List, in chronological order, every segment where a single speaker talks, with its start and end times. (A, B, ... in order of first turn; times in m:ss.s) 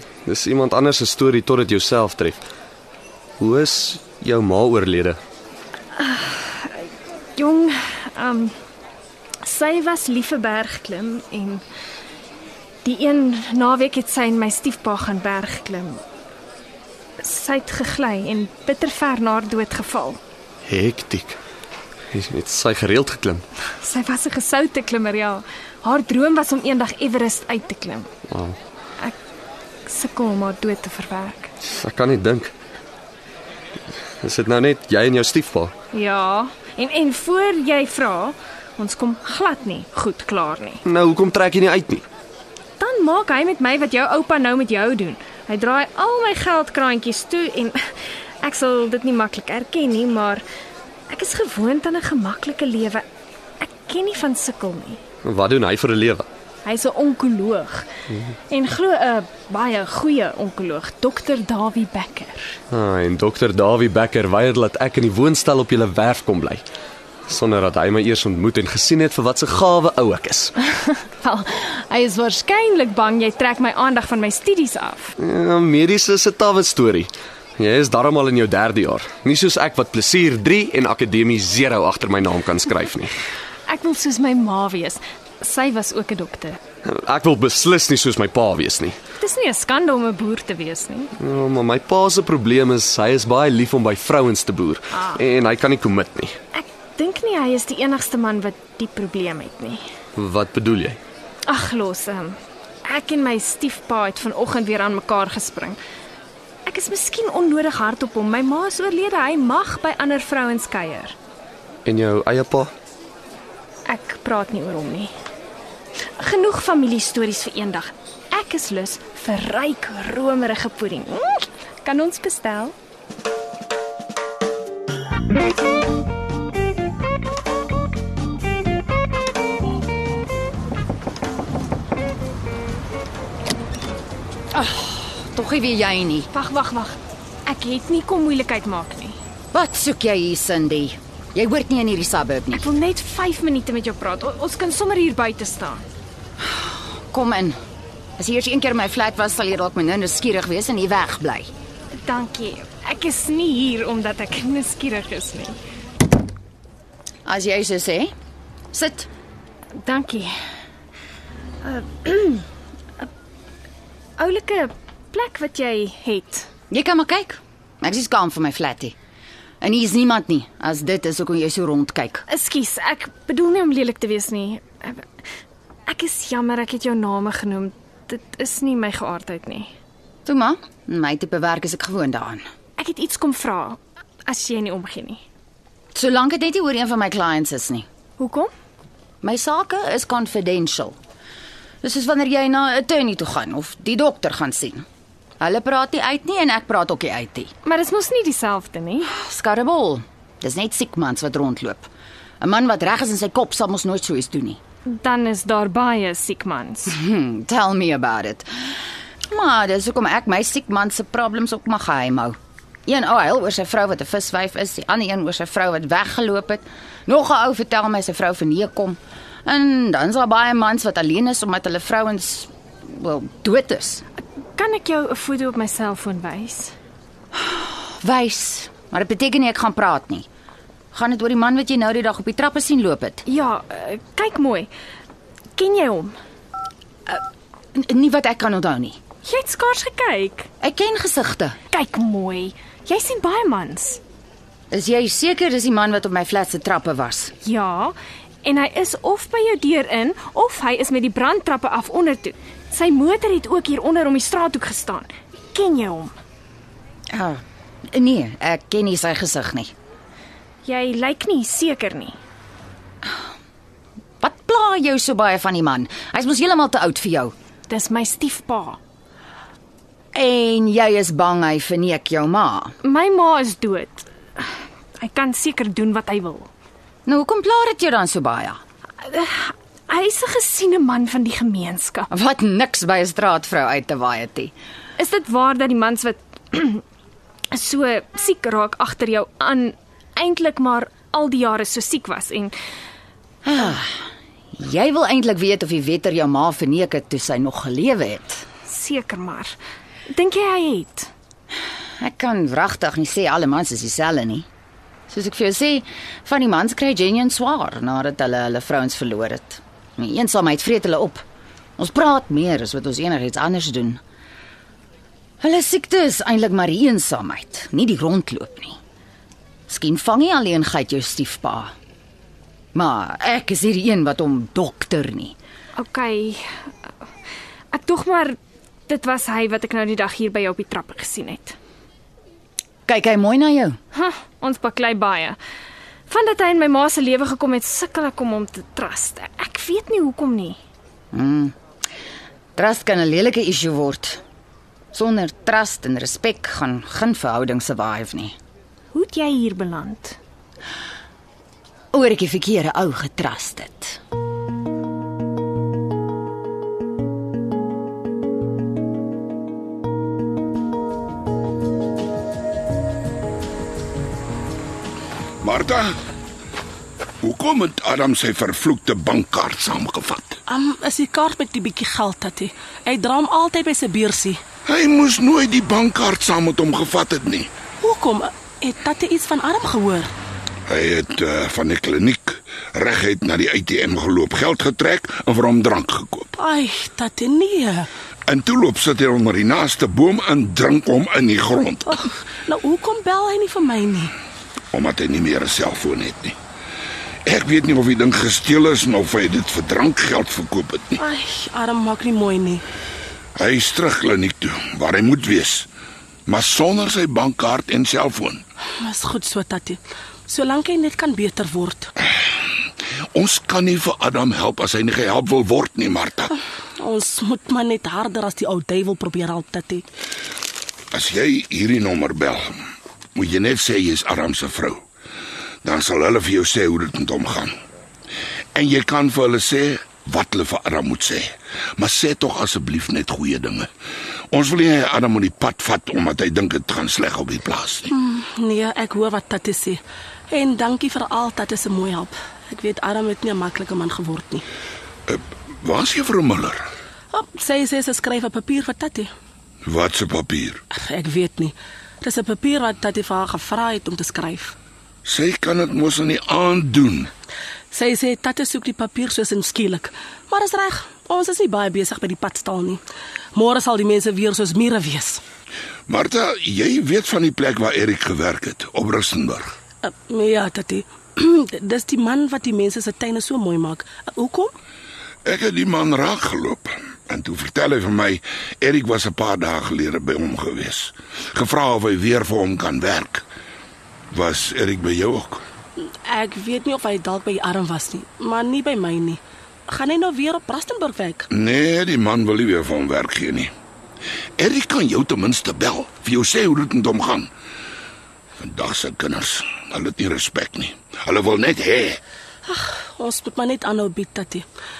0:00.3-0:02.4 A
0:03.4-0:05.2 A
0:06.0-0:08.5 B
0:09.4-0:11.6 B
0:12.8-0:16.0 B
0:17.2-0:20.2 B
0:20.7-0:21.4 A
0:22.1-0:23.4 A
0:23.8-0:28.1 B
0:28.3-0:28.6 A
0:29.9-0:31.5 B
0:31.6-0:32.5 A
0:34.2-0:35.7 A
0:35.9-0:40.8 B
0:40.8-0:42.0 A
0:42.8-0:50.4 B
0:51.1-0:53.0 B
0:53.6-0:55.0 B
0:55.2-0:56.3 A
0:56.6-0:57.9 B
0:58.5-1:02.6 B
1:02.7-1:06.6 A
1:07.3-1:10.6 A
1:11.2-1:15.1 B
1:15.2-1:23.1 A
1:23.7-1:26.6 B
1:26.8-1:29.0 A
1:29.2-1:31.1 B
1:31.2-1:36.4 A
1:35.0-1:35.2 B
1:36.5-1:39.8 B
1:40.2-1:41.0 A
1:41.5-1:45.8 B
1:46.7-1:51.2 B
1:51.8-1:52.7 A
1:53.9-1:55.1 B
1:56.2-2:02.8 B
2:14.5-2:16.3 C
2:16.3-2:19.2 B
2:19.5-2:22.7 C
2:22.5-2:25.8 B
2:26.4-2:27.6 C
2:28.2-2:31.5 C
2:32.0-2:35.6 B
2:37.2-2:38.1 C
2:38.7-2:39.1 C
2:39.8-2:40.3 B
2:41.6-2:42.4 B
2:44.2-2:46.5 B
2:46.7-2:49.0 C
2:49.6-2:52.2 C
2:52.3-2:55.0 B
2:55.9-2:59.7 B
3:00.3-3:02.4 C
3:02.8-3:05.2 B
3:05.9-3:07.9 C
3:08.2-3:08.5 B
3:09.2-3:11.0 C
3:11.8-3:14.8 C
3:15.4-3:17.5 C
3:17.6-3:19.1 B
3:19.1-3:21.9 C
3:22.4-3:24.6 C
3:24.9-3:27.0 B
3:26.9-3:28.5 C
3:29.3-3:44.0 C
3:44.5-3:46.7 B
3:47.4-3:50.3 C
3:50.9-3:53.2 C
3:53.3-3:54.7 B
3:55.6-3:56.2 B
3:57.8-3:59.0 C
3:59.2-4:00.5 B
4:00.6-4:01.6 C
4:01.7-4:04.0 B
4:04.7-4:07.3 C
4:07.4-4:16.1 B
4:17.1-4:17.4 C
4:17.9-4:19.7 C
4:20.6-4:22.2 B
4:24.2-4:27.3 C
4:27.7-4:28.8 B
4:30.1-4:32.7 C
4:32.8-4:36.5 B
4:37.1-4:38.6 C
4:39.0-4:42.1 B
4:42.1-4:44.5 C
4:45.0-4:46.8 B
4:47.5-4:52.6 B
4:53.4-4:58.4 C
4:58.7-4:59.6 B
5:00.1-5:01.1 B
5:02.0-5:04.5 C
5:05.1-5:11.2 C
5:11.8-5:14.0 C
5:15.4-5:18.8 C
5:19.7-5:21.7 C
5:22.8-5:25.4 C
5:25.8-5:26.4 B
5:27.7-5:31.6 B
5:32.9-5:33.8 C
5:33.9-5:35.4 B
5:36.1-5:40.6 B
5:41.1-5:41.6 C
5:42.6-5:44.2 C
5:44.9-5:48.4 C
5:48.9-5:50.2 B
5:51.9-5:54.0 C
6:05.4-6:06.0 D
6:07.2-6:10.4 D
6:10.5-6:14.4 E
6:14.7-6:17.5 D
6:17.8-6:20.1 E
6:20.7-6:26.3 D
6:26.4-6:27.9 E
6:28.3-6:31.9 D
6:31.9-6:34.1 E
6:34.7-6:36.4 D
6:37.3-6:41.0 D
6:41.0-6:42.6 E
6:43.4-6:45.7 D
6:46.3-6:48.4 D
6:48.8-6:51.9 E
6:53.2-6:56.3 D
6:56.8-6:59.8 E
7:00.9-7:02.5 D
7:03.2-7:04.8 D
7:05.6-7:07.5 D
7:08.6-7:13.7 D
7:14.3-7:17.9 D
7:17.9-7:24.4 E
7:25.1-7:26.7 D
7:27.1-7:29.1 E
7:29.6-7:30.6 D
7:30.7-7:34.6 E
7:35.0-7:37.1 D
7:37.7-7:42.8 E
7:43.4-7:45.2 E
7:45.9-7:49.5 D
7:49.8-7:54.5 E
7:55.2-8:03.2 D
8:04.1-8:05.4 D
8:06.1-8:11.3 E
8:11.3-8:13.5 D
8:14.4-8:17.3 D
8:18.4-8:22.0 D
8:22.4-8:24.5 E